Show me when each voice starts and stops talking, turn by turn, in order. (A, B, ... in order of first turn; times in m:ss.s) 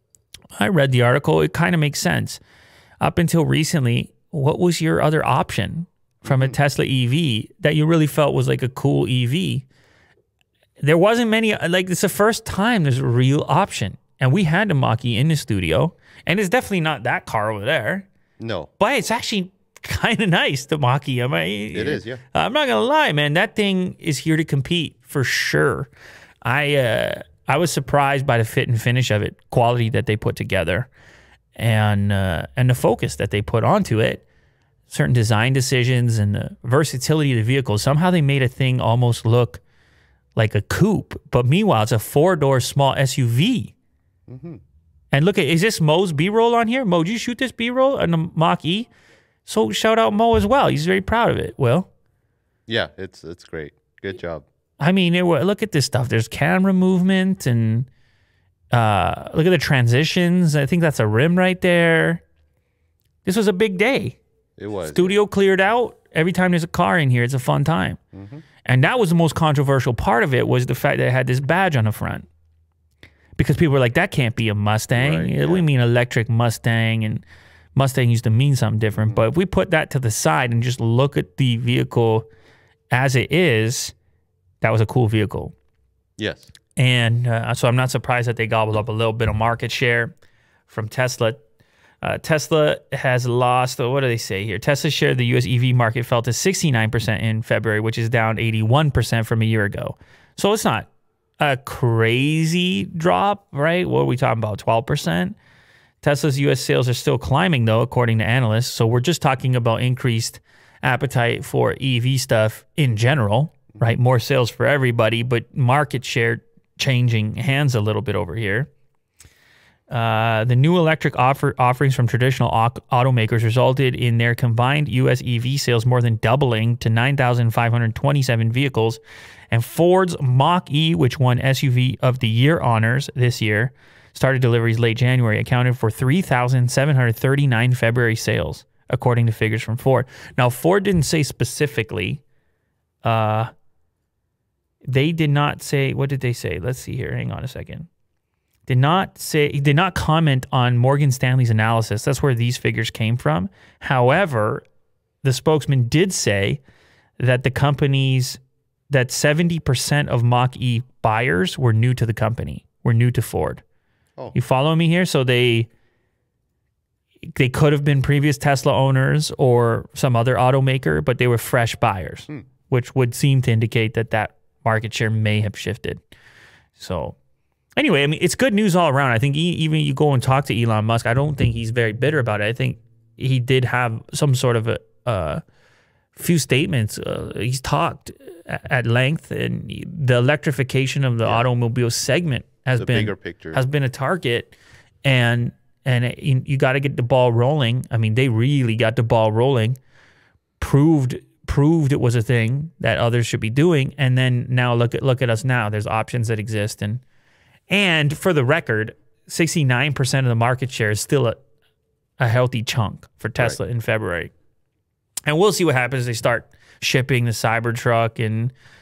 0:00.6-0:02.4 A
0:03.0-0:09.6 A
0:06.2-0:06.6 B
0:10.8-0:18.0 A
0:18.4-0:18.7 B
0:18.8-0:25.9 A
0:21.7-0:22.2 B
0:26.4-0:30.9 A
0:31.6-0:34.2 A
0:34.9-0:39.6 A
0:40.4-0:43.7 A
0:44.3-0:44.6 B
0:45.1-0:48.9 A
0:49.4-0:51.9 A
0:52.7-0:54.4 B
0:54.8-0:57.9 A
0:58.7-1:02.2 A
1:03.2-1:04.2 A
1:04.6-1:05.2 B
1:04.9-1:08.0 A
1:08.1-1:08.4 B
1:08.6-1:12.3 A
1:13.4-1:17.2 A
1:14.9-1:15.6 B
1:17.7-1:22.2 A
1:22.9-1:23.9 A
1:24.6-1:25.5 A
1:26.2-1:26.5 B
1:26.8-1:30.1 A
1:30.7-1:31.4 A
1:32.0-1:45.4 A
1:46.0-1:58.7 A
1:59.9-2:22.2 A
2:23.0-2:23.5 A
2:24.9-2:27.9 A
2:28.7-2:34.6 A
2:35.2-2:36.6 A
2:37.2-2:43.6 A
2:44.3-2:45.7 A
2:47.3-2:56.0 A
2:56.8-2:57.1 A
2:57.8-3:05.4 A
3:06.1-3:19.8 A
3:12.8-3:13.6 B
3:20.6-3:27.0 A
3:27.7-3:31.4 A
3:32.2-3:34.3 A
3:35.2-3:38.5 A